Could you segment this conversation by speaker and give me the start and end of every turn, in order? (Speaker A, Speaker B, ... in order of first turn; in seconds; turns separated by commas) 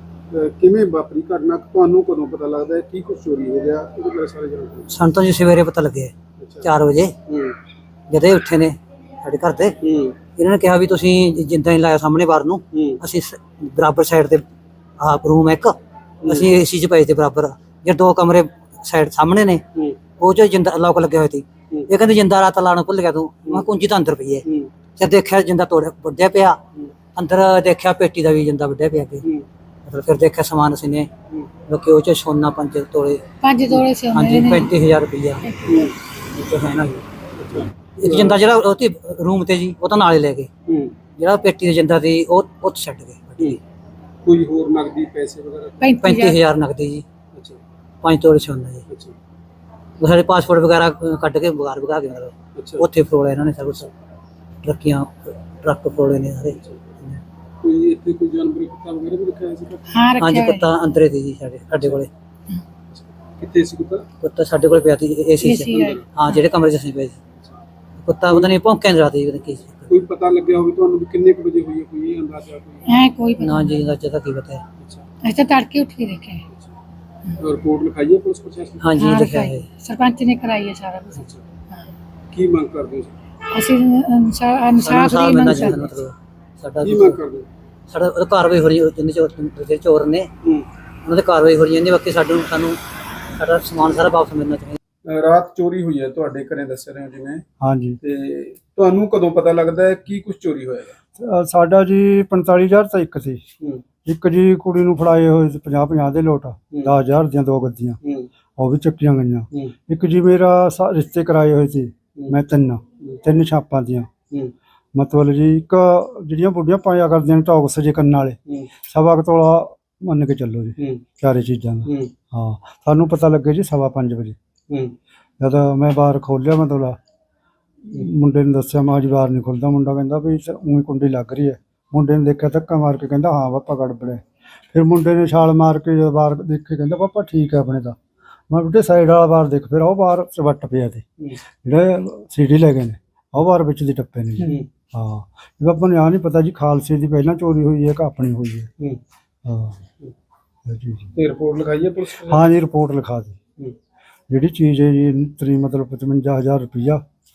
Speaker A: 0.3-4.9, Speaker B: 4.9-6.1, Speaker A: 6.4-6.7, Speaker B: 6.6-7.1, Speaker A: 7.3-7.6, Speaker B: 8.1-9.8, Speaker A: 9.8-10.2, Speaker B: 10.3-14.4, Speaker A: 12.7-13.0, Speaker B: 15.0-15.8, Speaker B: 16.3-19.6, Speaker A: 19.8-20.0, Speaker B: 20.2-24.4, Speaker A: 24.5-24.7, Speaker B: 25.0-26.6, Speaker B: 27.1-29.2, Speaker B: 29.9-31.1, Speaker B: 31.7-33.2, Speaker C: 33.4-34.7, Speaker B: 34.1-35.4, Speaker C: 35.5-35.8, Speaker A: 35.7-35.9, Speaker B: 36.4-37.0, Speaker A: 37.4-38.4, Speaker B: 38.0-40.5, Speaker A: 40.7-41.0, Speaker B: 41.2-43.6, Speaker A: 44.2-45.9, Speaker C: 45.8-46.4, Speaker B: 46.0-47.0, Speaker A: 47.3-47.6, Speaker B: 48.0-48.8, Speaker A: 48.9-49.2, Speaker B: 50.0-53.9, Speaker A: 52.5-52.8, Speaker B: 54.6-57.2, Speaker A: 57.6-59.9, Speaker C: 59.9-60.7, Speaker B: 60.2-62.1, Speaker A: 62.9-64.0, Speaker B: 64.2-67.2, Speaker C: 65.4-66.4, Speaker A: 65.7-66.0, Speaker B: 68.0-69.9, Speaker A: 69.9-72.9, Speaker C: 72.9-73.8, Speaker B: 73.4-74.6, Speaker A: 74.8-75.1, Speaker C: 75.2-76.5, Speaker A: 77.4-78.9, Speaker B: 78.8-79.7, Speaker C: 79.0-81.9, Speaker A: 81.2-81.5, Speaker A: 82.3-83.2, Speaker C: 83.5-85.9, Speaker B: 84.8-87.2, Speaker A: 86.8-87.5, Speaker B: 87.9-90.3, Speaker B: 91.0-92.8, Speaker B: 93.4-94.8, Speaker A: 95.0-97.4, Speaker D: 97.6-98.0, Speaker A: 98.0-101.0, Speaker D: 101.2-103.4, Speaker D: 104.0-108.0, Speaker A: 108.0-108.3, Speaker D: 108.6-114.1, Speaker D: 115.0-124.4, Speaker A: 121.9-122.1, Speaker A: 124.7-124.9, Speaker D: 125.4-127.0, Speaker D: 127.9-134.2, Speaker D: 134.7-138.0, Speaker D: 138.5-141.1, Speaker D: 141.6-148.7, Speaker A: 144.4-144.7, Speaker D: 149.4-149.8, Speaker D: 150.7-151.1, Speaker A: 151.2-152.5, Speaker D: 152.3-153.4, Speaker D: 154.3-157.0